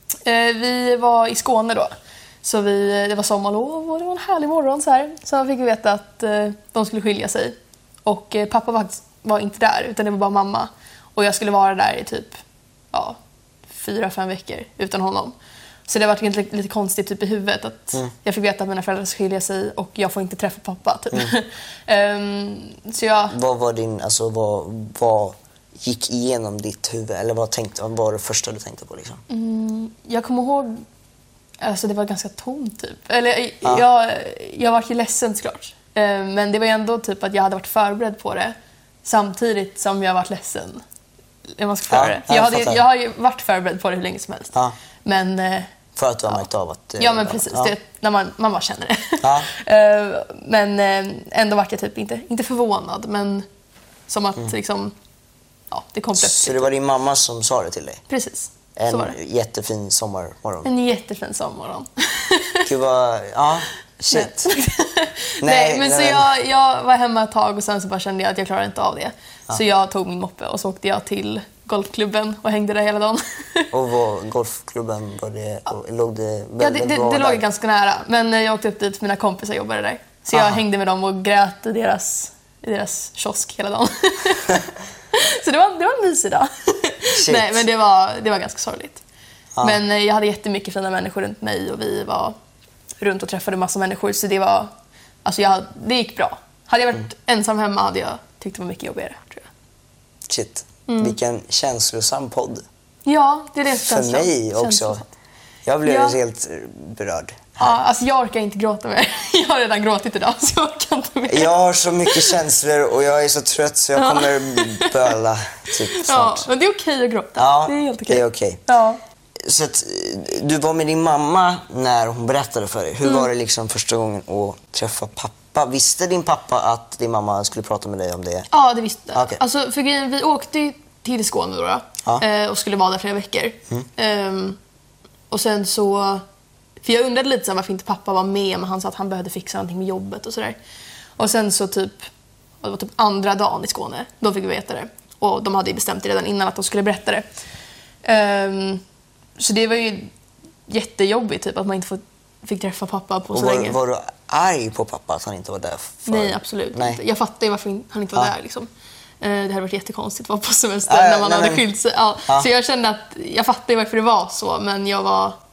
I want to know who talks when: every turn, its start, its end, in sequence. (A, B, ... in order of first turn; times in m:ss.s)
0:00.2-0:12.4 A
0:12.9-0:13.2 A
0:13.7-0:15.3 A
0:15.9-0:23.4 A
0:23.3-0:29.2 B
0:29.3-0:30.8 A
0:31.6-0:40.8 A
0:41.6-0:45.7 A
0:41.9-0:42.8 B
0:46.0-0:47.7 B
0:47.0-0:53.4 A
0:49.2-0:49.5 B
0:54.1-0:54.9 A
0:55.7-0:56.7 A
0:56.2-0:58.0 B
0:58.1-0:59.2 A
0:58.8-1:00.7 B
1:00.6-1:02.7 A
1:02.6-1:04.5 B
1:04.1-1:13.7 A
1:05.4-1:06.3 B
1:13.7-1:17.4 B
1:16.6-1:24.6 A
1:20.3-1:20.6 B
1:25.1-1:29.0 A
1:27.2-1:27.6 B
1:29.6-1:32.3 A
1:33.0-1:34.7 A
1:35.2-1:39.5 A
1:40.3-1:42.6 B
1:40.9-1:41.2 A
1:43.0-1:45.0 A
1:43.8-1:45.0 B
1:45.6-1:47.7 B
1:45.8-1:46.2 A
1:47.6-1:51.5 A
1:51.3-1:56.5 B
1:52.0-1:52.4 A
1:54.0-1:55.1 A
1:55.9-1:59.0 A
1:57.4-1:58.6 B
1:59.4-2:08.5 B
2:08.5-2:14.6 A
2:09.1-2:09.4 B
2:15.3-2:16.2 A
2:16.8-2:20.6 A
2:21.2-2:22.1 A
2:22.6-2:27.2 A
2:28.0-2:28.8 A
2:29.4-2:30.1 A
2:30.7-2:33.8 A
2:33.3-2:37.0 B
2:36.0-2:38.7 A
2:39.2-2:45.4 A
2:40.9-2:41.6 B